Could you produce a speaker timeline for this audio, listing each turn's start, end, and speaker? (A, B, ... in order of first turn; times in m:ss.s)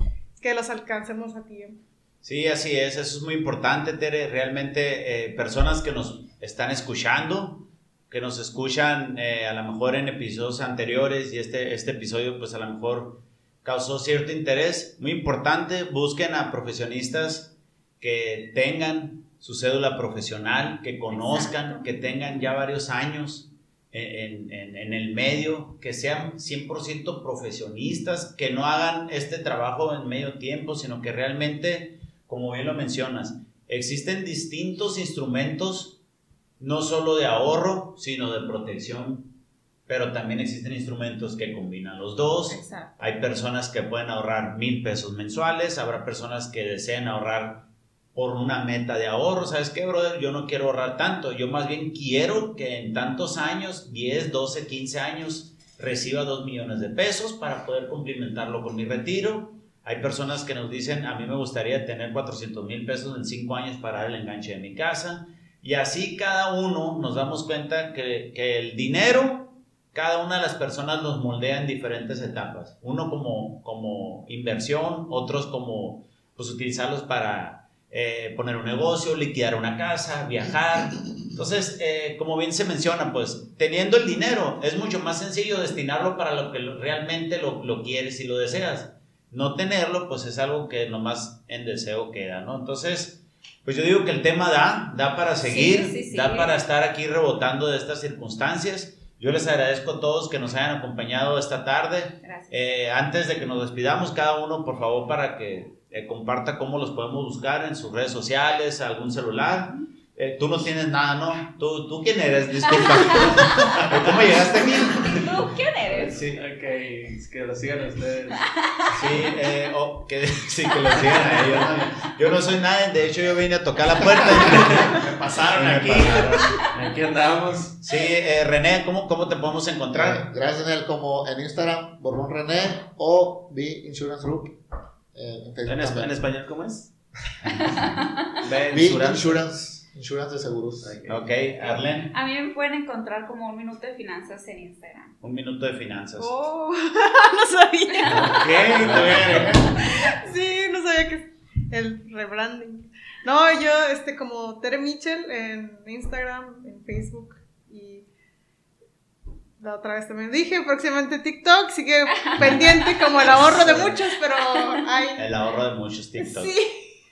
0:00.4-0:01.8 A
0:02.2-0:36.0 B
0:21.1-0:22.4 C
0:36.6-0:39.4 B
0:39.9-1:55.5 B
0:42.5-0:43.0 C
1:35.4-1:36.5 C
1:42.2-1:42.6 C
1:52.7-1:53.7 C
1:54.7-1:56.2 C
1:55.9-1:58.4 D
1:58.6-1:58.9 C
1:58.9-2:06.6 B
2:01.0-2:01.8 D
2:04.2-2:07.8 D
2:07.8-2:10.3 B
2:09.9-2:14.6 E
2:15.1-2:16.1 E
2:15.7-2:16.9 D
2:18.4-2:19.4 D
2:18.7-2:21.0 E
2:20.8-2:21.2 D
2:21.1-2:22.1 B
2:21.6-2:25.1 C
2:25.2-2:26.3 B
2:26.2-2:38.1 A
2:27.9-2:28.4 C
2:28.1-2:29.8 D
2:28.8-2:29.4 B
2:39.6-2:45.3 A
2:42.1-2:43.3 C
2:43.2-2:44.0 B
2:44.3-2:44.8 C
2:45.2-2:46.5 B
2:46.2-2:46.8 A